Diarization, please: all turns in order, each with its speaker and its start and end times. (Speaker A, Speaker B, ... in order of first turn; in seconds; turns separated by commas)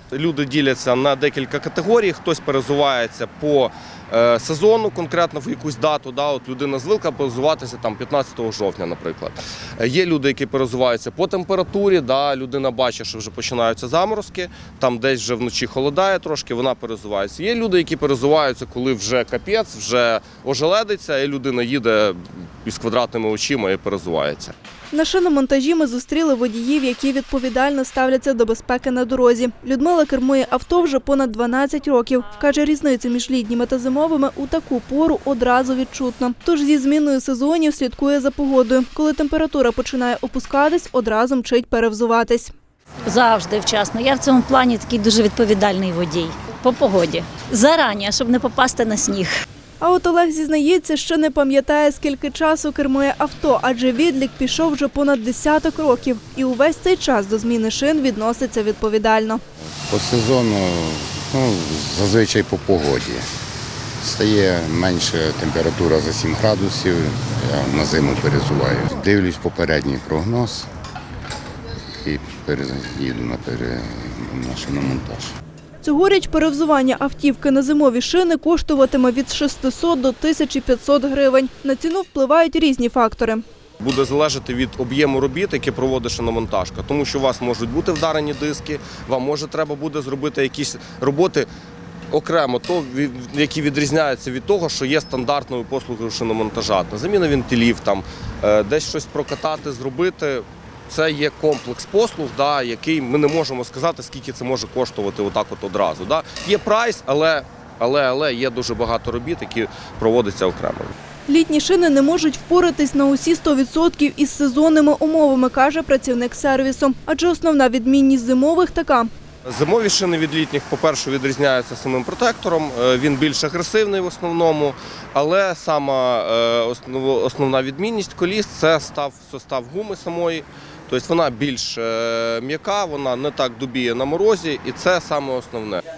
Speaker A: 0.1-24.5, Speaker B: 24.9-42.5, Speaker C: 43.0-49.3, Speaker B: 49.8-59.4, Speaker D: 59.9-63.3, Speaker D: 64.0-70.7, Speaker D: 72.0-75.3, Speaker B: 75.8-83.4, Speaker A: 83.8-91.5, Speaker A: 92.1-110.9, Speaker B: 111.3-119.1, Speaker A: 119.5-135.8